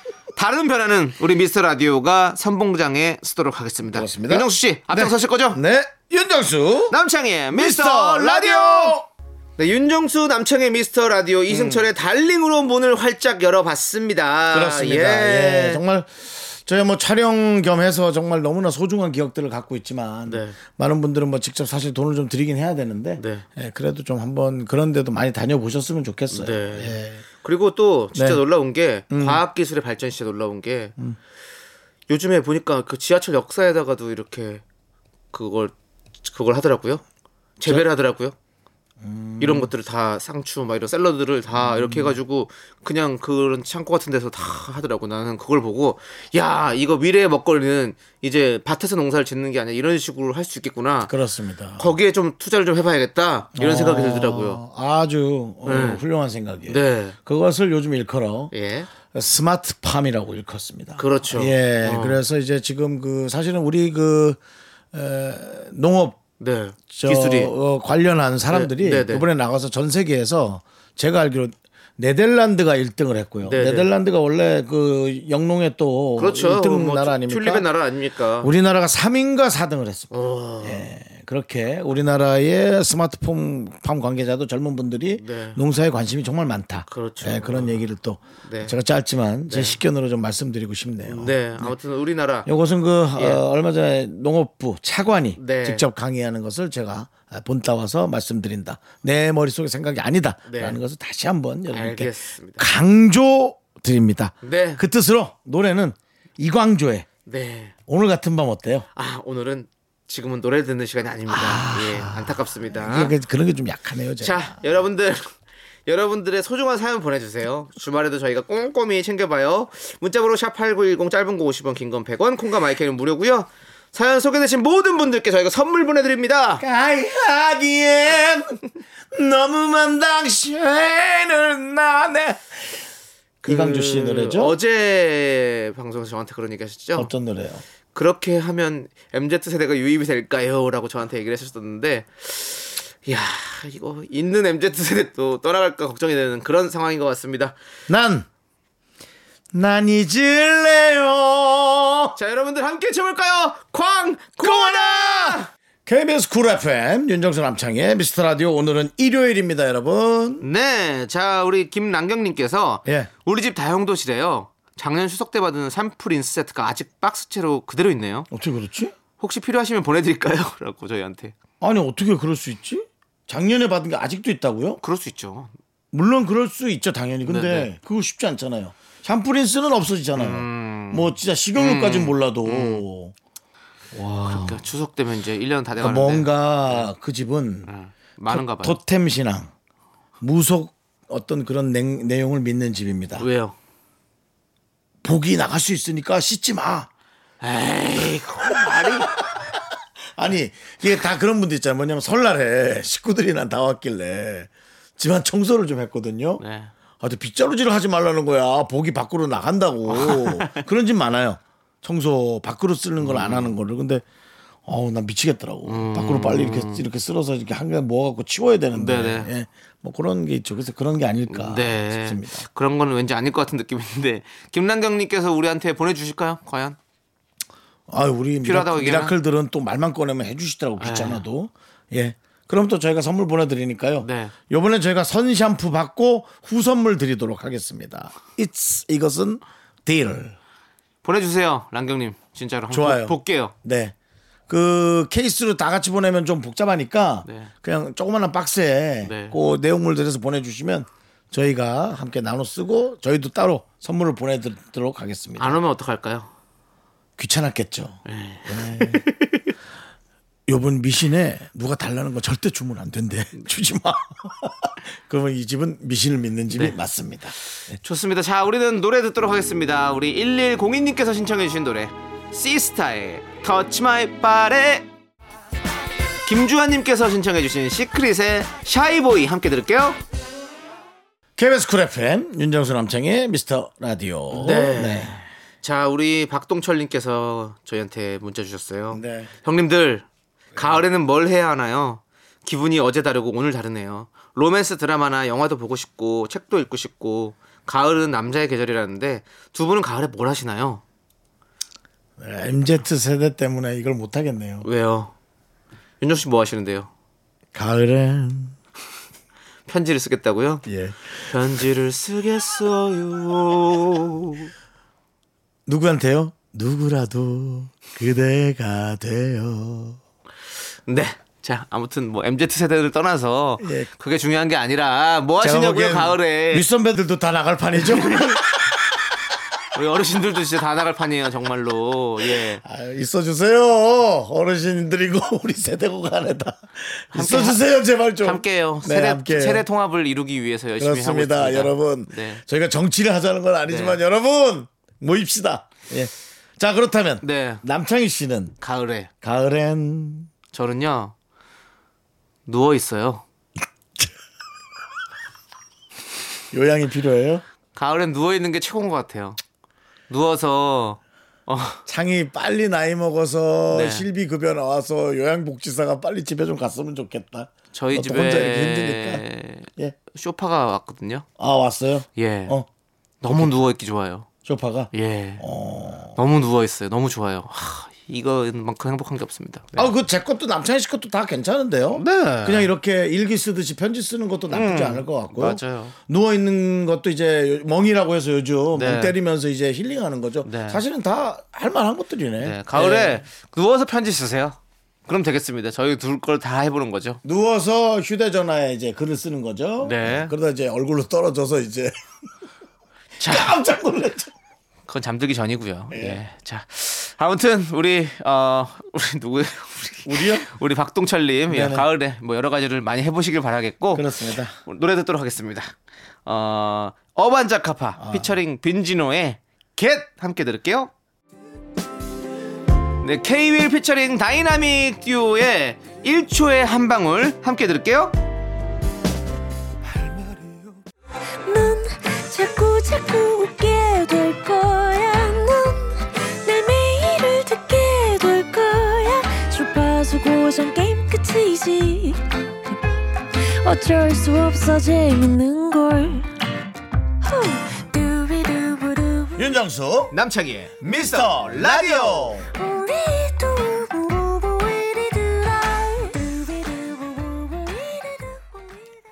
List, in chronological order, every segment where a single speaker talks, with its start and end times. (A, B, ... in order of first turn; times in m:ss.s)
0:00.4-0:05.6 A
0:03.9-0:07.0 B
0:06.9-0:09.0 A
0:07.5-0:09.0 B
0:09.6-0:15.8 A
0:11.5-0:11.9 B
0:14.5-0:27.2 B
0:20.2-0:20.6 A
0:23.2-0:23.4 A
0:26.3-0:30.9 A
0:28.1-0:28.4 B
0:29.1-0:29.4 B
0:32.1-0:34.6 A
0:35.3-0:37.0 A
0:37.6-0:38.3 A
0:39.0-0:39.7 B
0:39.4-0:51.1 A
0:41.5-0:42.2 B
0:51.0-0:51.9 B
0:51.8-0:54.6 A
0:53.5-0:58.5 B
0:55.6-0:56.0 A
0:56.7-0:57.2 A
0:58.5-0:58.9 A
0:59.1-1:04.4 B
1:01.0-1:02.2 A
1:04.9-1:06.2 B
1:06.4-1:07.5 A
1:06.9-1:17.6 B
1:08.5-1:09.3 A
1:13.4-1:13.9 A
1:16.2-1:18.5 A
1:18.4-1:20.1 B
1:20.1-1:20.8 A
1:20.6-1:31.7 B
1:25.2-1:25.6 A
1:26.9-1:27.8 A
1:28.4-1:28.7 A
1:29.5-1:29.8 A
1:31.1-1:32.5 A
1:32.4-1:47.1 B
1:35.4-1:35.9 A
1:40.5-1:40.8 A
1:41.7-1:42.7 A
1:44.4-1:44.8 A
1:47.2-1:47.7 A
1:47.9-1:48.8 B
1:48.9-1:53.1 A
1:51.3-1:54.6 B
1:54.2-2:06.6 A
2:06.6-2:12.8 B
2:13.4-2:17.1 A
2:13.4-2:14.5 B
2:17.0-2:17.6 B
2:17.9-2:27.6 A
2:27.9-2:28.2 B
2:29.5-2:32.1 B
2:32.2-2:35.5 A
2:34.4-2:40.4 B
2:40.4-2:48.3 A
2:48.3-2:48.9 B
2:49.2-2:51.3 A
2:51.6-2:54.8 B
2:54.8-2:55.5 A
2:55.9-3:03.1 B
2:57.2-2:57.7 A
3:00.2-3:02.8 A
3:03.9-3:04.6 B
3:04.3-3:06.9 A
3:05.8-3:07.7 B
3:07.6-3:08.8 A
3:08.3-3:09.5 B
3:10.2-3:13.3 B
3:13.2-3:13.5 A
3:15.0-3:16.9 B
3:17.4-3:19.2 A
3:18.4-3:19.6 B
3:20.2-3:26.4 B
3:26.4-3:26.7 A
3:27.0-3:34.0 B
3:29.9-3:30.6 A
3:33.0-3:33.5 A
3:34.6-3:42.4 B
3:35.6-3:36.8 A
3:38.7-3:39.3 A
3:41.3-3:46.8 A
3:47.9-4:00.4 B
3:48.4-3:49.1 A
3:50.8-3:51.2 A
3:54.0-3:54.3 A
4:01.0-4:03.5 A
4:02.7-4:03.9 B
4:04.5-4:15.6 B
4:07.2-4:07.5 A
4:09.0-4:09.4 A
4:15.4-4:16.3 A
4:17.2-4:19.0 B
4:18.0-4:19.5 A
4:20.5-4:27.8 B
4:27.7-4:34.8 A
4:36.2-4:40.0 A
4:41.4-4:45.2 B
4:44.3-5:00.8 A
4:48.9-4:49.3 B
4:50.5-4:50.8 B
5:02.2-5:04.7 B
5:04.6-5:05.1 A
5:06.0-5:06.9 A
5:07.5-5:08.6 B
5:09.7-5:10.6 A
5:10.6-5:11.3 B
5:11.2-5:14.5 A
5:15.7-5:20.0 B
5:20.9-5:26.6 A
5:23.6-5:23.9 B
5:25.4-5:28.7 B
5:28.0-5:28.5 A
5:29.7-5:32.6 A
5:32.4-5:39.6 B
5:37.1-5:37.6 A
5:38.2-5:42.4 A
5:40.8-5:48.5 B
5:43.7-5:44.0 A
5:47.2-5:47.6 A
5:48.6-5:49.1 A
5:49.2-5:50.3 B
5:50.5-5:51.1 A
5:52.4-5:53.2 A
5:56.5-5:57.4 B
5:57.7-5:59.4 A
6:00.1-6:01.8 A
6:01.8-6:09.2 B
6:03.7-6:04.1 A
6:07.7-6:11.2 A
6:11.4-6:12.7 B
6:12.2-6:12.6 A
6:13.2-6:14.3 A
6:13.3-6:13.6 B
6:14.4-6:16.2 B
6:14.9-6:15.4 A
6:16.2-6:19.9 A
6:19.8-6:33.2 B
6:21.9-6:22.7 A
6:24.5-6:25.9 A
6:28.7-6:29.1 A
6:30.4-6:30.8 A
6:32.4-6:37.2 A
6:37.2-6:42.0 B
6:39.8-6:40.3 A
6:43.2-6:43.6 A
6:43.2-6:44.3 B
6:44.9-6:54.1 A
6:45.9-6:46.2 B
6:50.0-6:50.5 B
6:51.5-6:51.8 B
6:53.9-6:54.5 B
6:54.6-6:55.7 A
6:56.2-7:00.9 A
6:58.0-6:58.3 B
7:03.0-7:08.1 A
7:11.4-7:22.8 C
7:23.4-7:26.3 C
7:27.2-7:29.4 C
7:29.4-7:30.1 B
7:30.1-7:32.4 A
7:30.8-7:32.5 B
7:32.5-7:38.6 C